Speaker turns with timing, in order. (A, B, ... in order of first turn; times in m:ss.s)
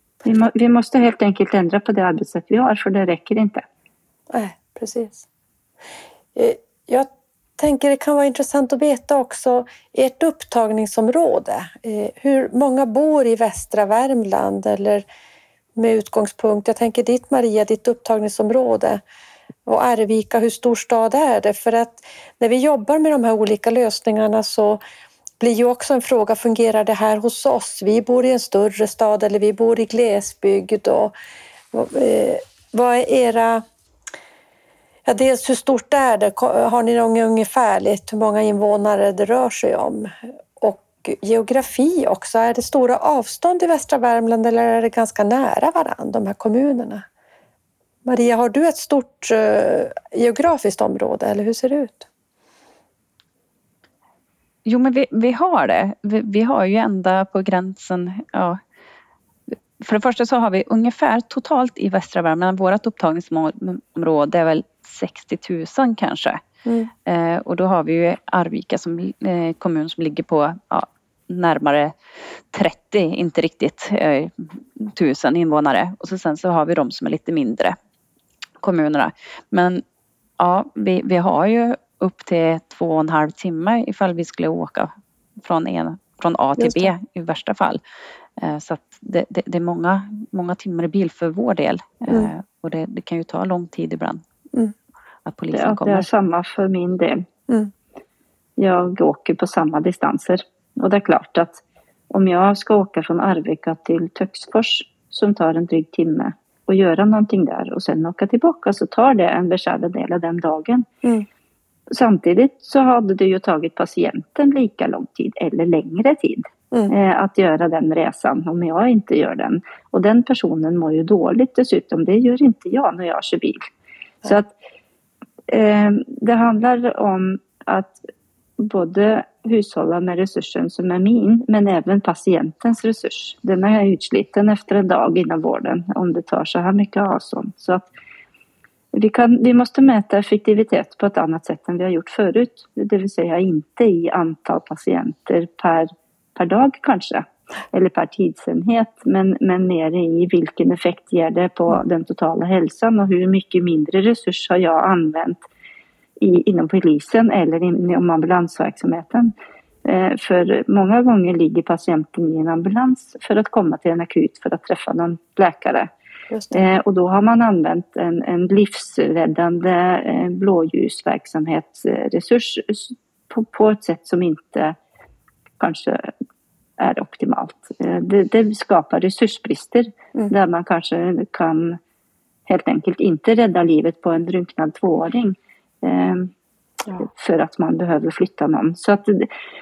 0:00.2-0:03.6 A
0:04.3-0:05.2 B
0:06.4-0:15.0 B
0:15.8-0:19.0 B
0:19.7-0:24.8 B
0:25.4-0:31.1 B
0:31.7-0:33.6 B
0:35.1-0:47.0 B
0:48.0-0:52.1 B
0:54.6-0:58.6 C
0:59.8-1:06.4 C
1:06.6-1:06.9 B
1:07.0-1:11.9 C
1:12.5-1:17.8 C
1:18.6-1:19.8 C
1:20.4-1:24.9 C
1:25.4-1:27.8 C
1:28.4-1:34.2 C
1:35.2-1:36.1 C
1:35.5-1:37.2 A
1:38.6-1:50.9 A
1:51.9-2:03.6 A
2:04.2-2:04.5 A
2:05.5-2:08.0 A
2:08.6-2:17.9 A
2:18.9-2:35.4 A
2:36.2-2:39.3 A
2:39.8-2:45.9 A
2:46.3-2:46.6 B
2:46.5-2:54.8 A
2:55.6-2:56.1 A
2:56.8-3:01.8 A
3:02.5-3:06.3 A
3:07.0-3:09.3 A